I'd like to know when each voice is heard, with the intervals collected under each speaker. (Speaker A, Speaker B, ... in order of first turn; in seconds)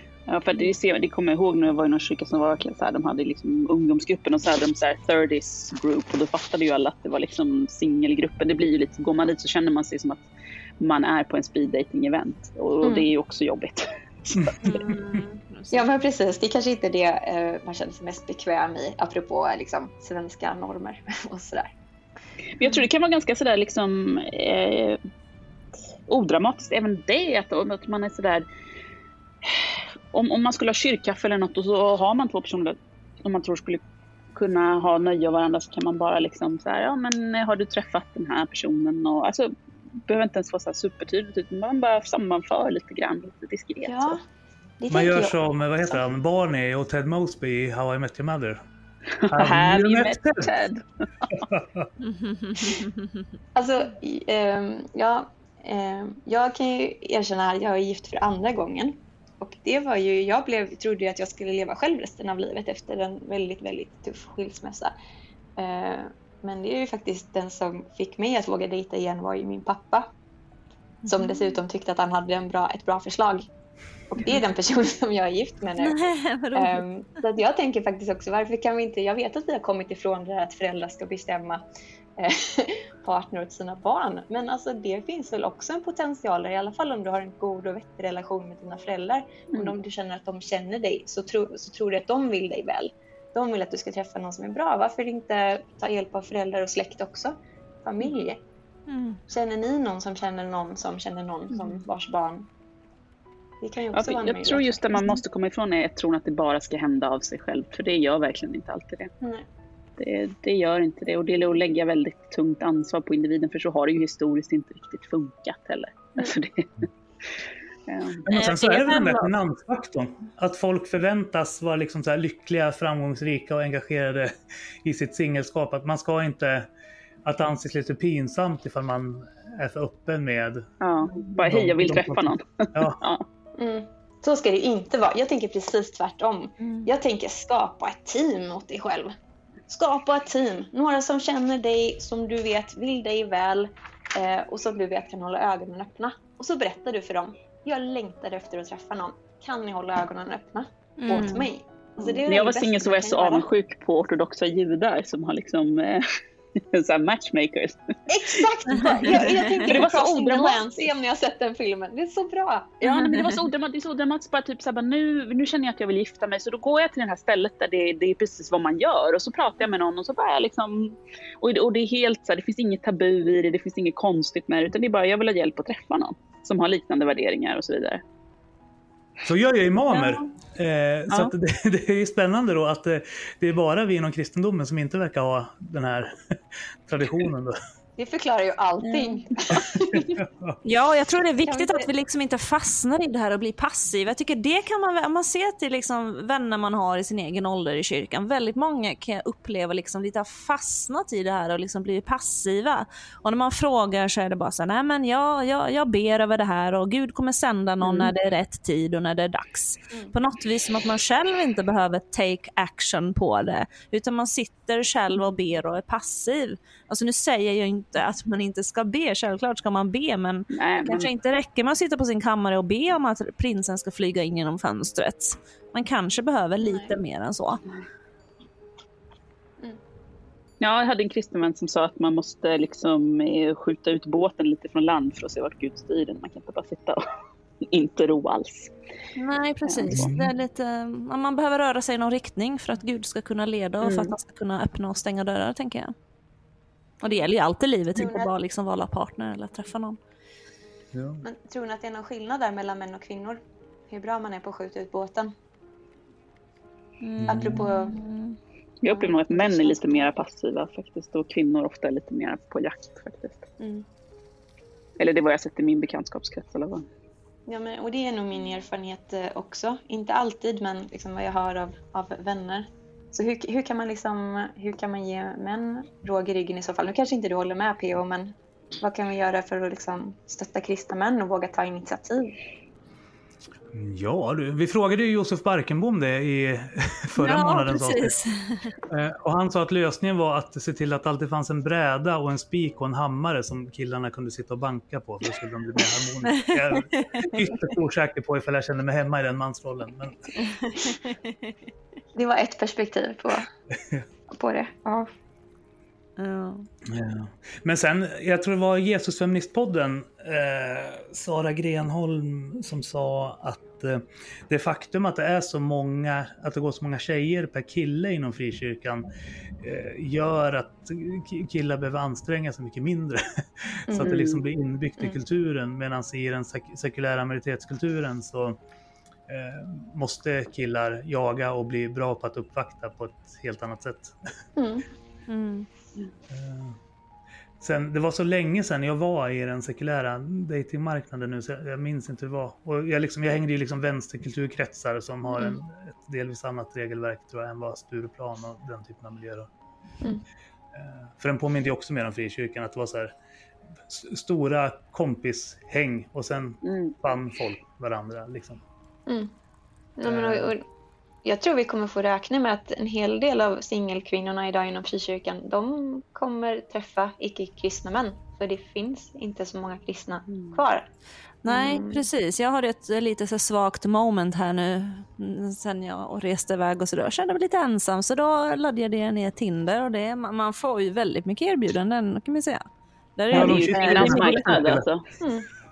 Speaker A: 0.3-10.3, 10.8-14.7, 22.6-25.0, 26.1-28.5, 29.4-33.8, 34.3-39.5, 40.1-44.2, 49.2-51.1, 103.9-109.1, 110.0-116.9, 117.9-118.2, 130.8-133.2, 152.1-156.1, 156.6-160.8, 162.8-178.0, 207.8-208.1, 220.5-221.1, 230.6-237.0, 237.7-238.7, 243.8-244.2, 258.8-263.5, 265.0-266.9, 324.0-324.4, 356.6-357.0, 370.3-370.6, 383.3-385.0
Speaker B: 12.8-13.1, 15.7-21.7, 43.8-44.2, 44.8-46.0, 53.5-64.9, 65.6-70.1, 71.1-73.5, 74.1-81.6, 82.2-98.4, 99.3-102.5, 103.6-105.1, 133.6-139.1, 139.7-153.5, 158.1-162.8, 188.0-190.2, 191.5-191.9, 226.6-226.9, 248.0-248.3, 251.2-255.3, 257.3-258.0, 258.9-260.1, 267.5-282.4, 302.2-303.5, 304.3-305.1, 334.6-334.9, 345.3-345.6, 360.0-360.6, 361.2-370.9, 371.5-372.1, 385.2-385.5
Speaker C: 14.6-15.8, 52.0-53.2, 71.1-71.6, 75.8-76.8, 98.9-99.2, 118.3-119.3, 136.6-136.9, 151.0-151.5, 158.7-159.5, 162.9-163.4, 188.8-189.2, 190.6-227.6, 239.2-245.9, 247.0-250.0, 257.0-258.4, 287.2-288.8, 296.3-297.4, 306.2-306.7, 335.3-335.7, 371.4-382.6, 383.2-384.6
Speaker D: 44.9-48.6, 49.3-50.5, 51.3-51.9, 118.2-124.3, 124.8-126.7, 127.2-130.7, 131.4-133.0, 179.2-186.2, 186.9-187.6, 189.5-190.6, 239.9-240.3, 250.9-251.2, 257.2-257.6, 283.7-288.1, 288.9-300.2, 303.8-304.1, 306.9-319.1, 319.6-328.6, 329.3-334.2, 336.3-336.8, 337.6-349.5, 350.7-353.1, 353.9-358.6, 360.0-360.5, 383.3-384.9